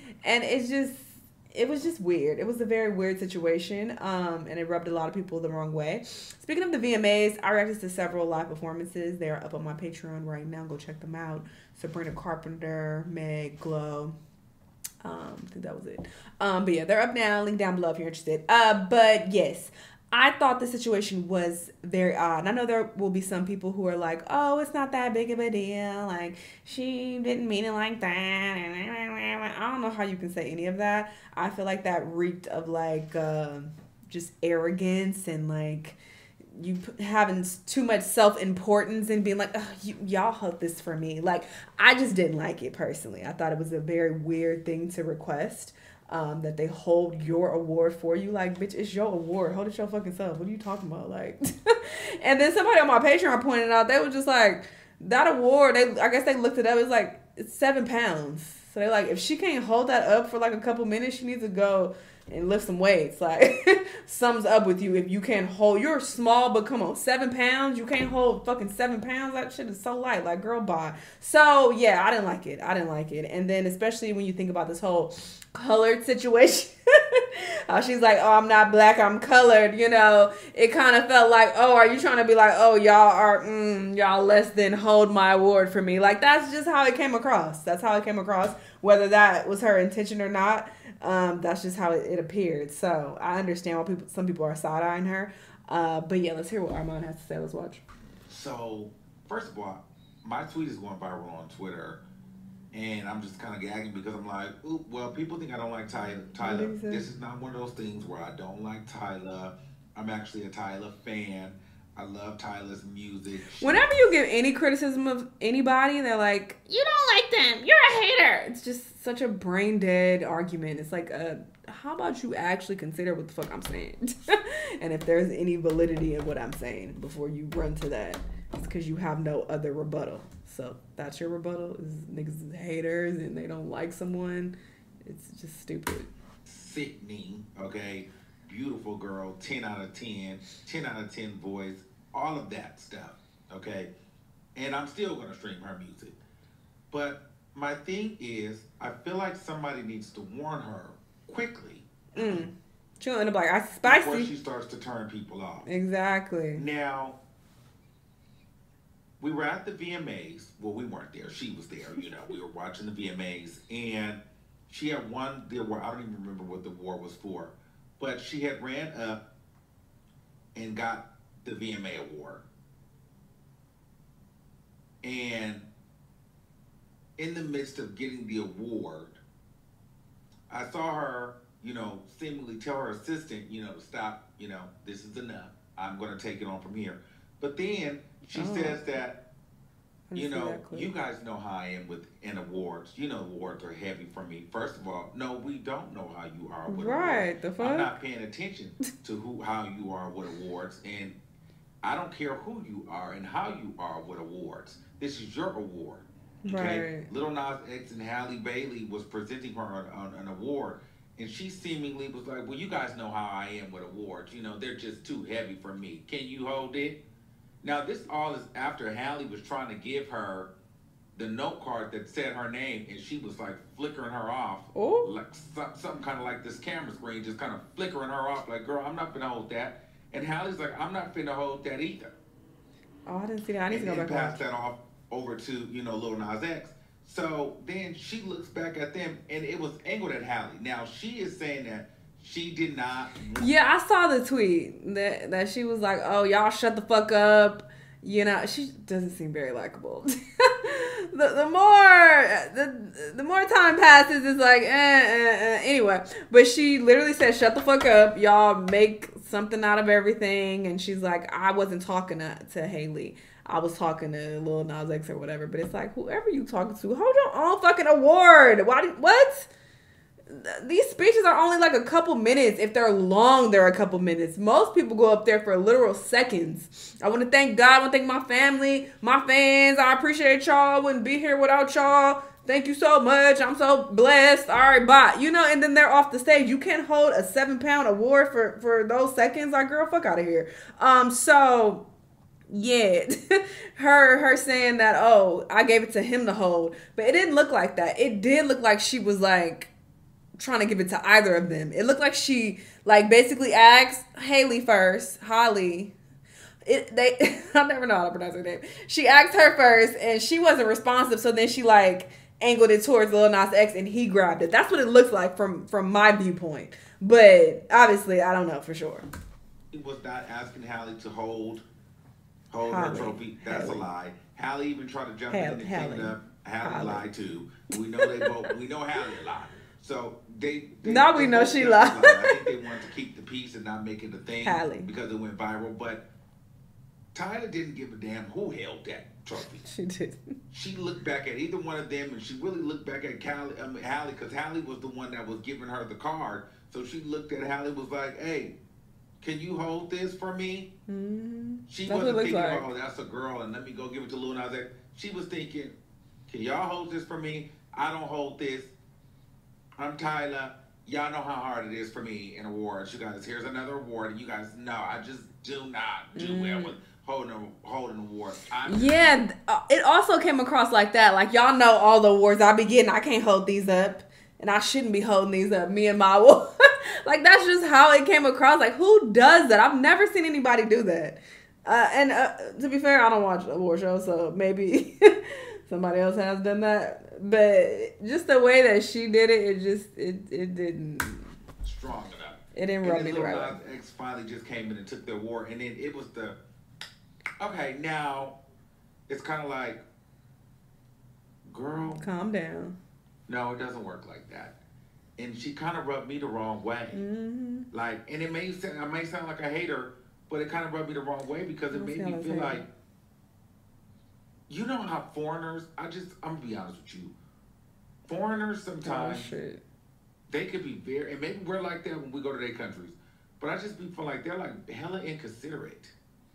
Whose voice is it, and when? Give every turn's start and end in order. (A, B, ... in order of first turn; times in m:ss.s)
0:00.2-0:14.1 A
0:15.0-0:36.0 A
0:36.5-0:51.4 A
0:52.2-1:37.8 A
1:38.3-1:42.0 B
1:42.7-1:53.8 B
1:46.4-1:47.0 A
1:53.6-2:14.5 A
2:15.0-2:16.1 A
2:16.4-2:23.9 B
2:24.6-2:26.2 B
2:26.9-2:32.5 B
2:32.2-2:34.3 A
2:33.8-2:35.7 B
2:35.7-2:36.6 A
2:36.6-2:37.2 B
2:39.2-2:49.2 B
2:50.6-2:52.4 B
2:55.0-2:55.7 B
2:57.2-2:59.2 B
3:00.5-3:09.2 B
3:08.3-3:08.8 A
3:10.1-3:10.9 A
3:10.2-3:21.2 B
3:16.7-3:18.0 A
3:21.8-3:37.0 B
3:26.4-3:27.1 A
3:37.6-3:40.5 B
3:41.2-3:52.1 B
3:44.7-3:45.1 A
3:53.1-3:54.4 A
3:53.7-4:03.5 B
4:03.4-4:29.5 A
4:30.3-4:51.8 A
4:52.5-4:59.7 A
5:00.4-5:05.9 A
5:06.6-5:19.0 A
5:19.7-5:21.6 B
5:22.5-5:36.1 B
5:22.6-5:23.9 A
5:25.3-5:27.1 A
5:27.7-5:28.3 A
5:30.8-5:32.4 A
5:34.4-5:34.9 A
5:37.1-5:39.7 B
5:39.6-5:40.2 A
5:40.5-5:48.6 B
5:49.2-5:50.7 B
5:50.9-5:52.7 A
5:51.7-5:55.8 B
5:56.3-5:58.8 B
5:59.8-6:09.1 B
6:06.2-6:06.8 A
6:08.6-6:16.4 A
6:17.0-6:25.0 A
6:25.7-6:31.3 A
6:31.6-6:36.4 B
6:32.6-6:33.6 A
6:37.4-6:38.4 B
6:39.1-6:39.8 B
6:41.5-6:42.0 B
6:42.0-6:42.8 A
6:43.3-6:44.6 B
6:45.2-6:47.0 B
6:46.9-6:47.7 A
6:47.7-6:52.7 B
6:51.7-6:52.6 A
6:54.5-6:57.1 B
6:58.1-6:59.3 B
6:58.8-6:59.6 A
7:00.3-7:05.9 B